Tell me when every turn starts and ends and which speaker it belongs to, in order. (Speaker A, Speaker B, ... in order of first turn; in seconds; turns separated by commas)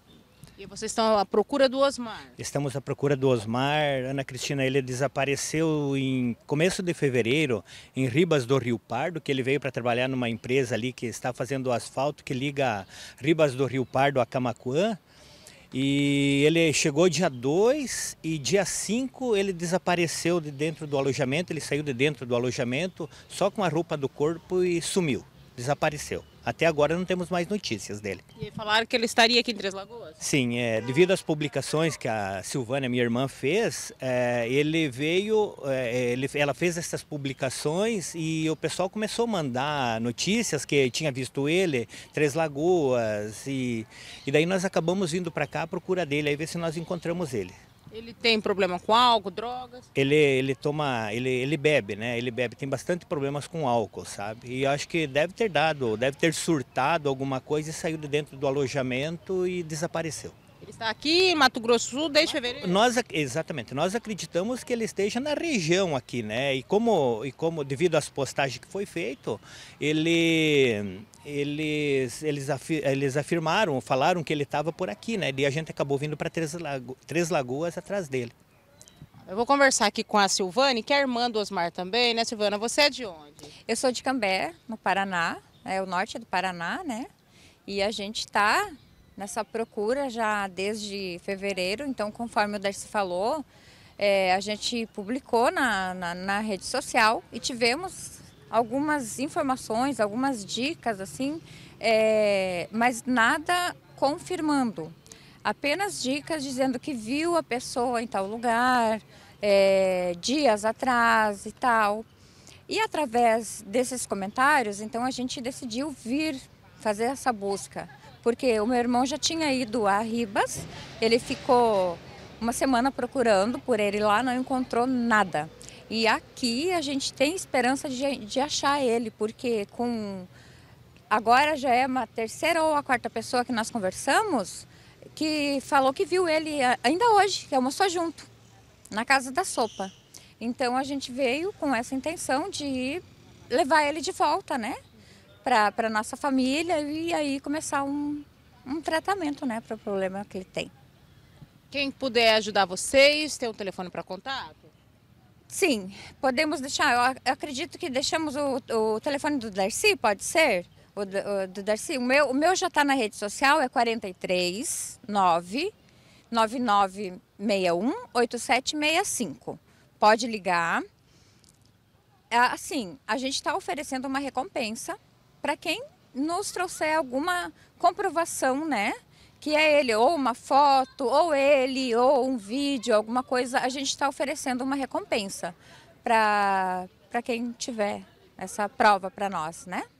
Speaker A: 0.6-2.4, Speaker B: 2.4-15.0, Speaker B: 15.7-28.2, Speaker A: 28.4-30.2, Speaker B: 30.2-47.5, Speaker A: 47.9-49.9, Speaker B: 49.9-60.3, Speaker A: 60.6-62.8, Speaker B: 62.3-78.3, Speaker A: 79.2-83.5, Speaker C: 83.7-87.1, Speaker C: 87.7-93.4, Speaker C: 94.0-112.0, Speaker C: 112.7-130.3, Speaker C: 131.1-138.3, Speaker C: 138.9-144.8, Speaker C: 145.4-150.7, Speaker A: 151.7-154.7, Speaker C: 155.5-165.7, Speaker C: 166.3-170.8, Speaker C: 172.3-189.8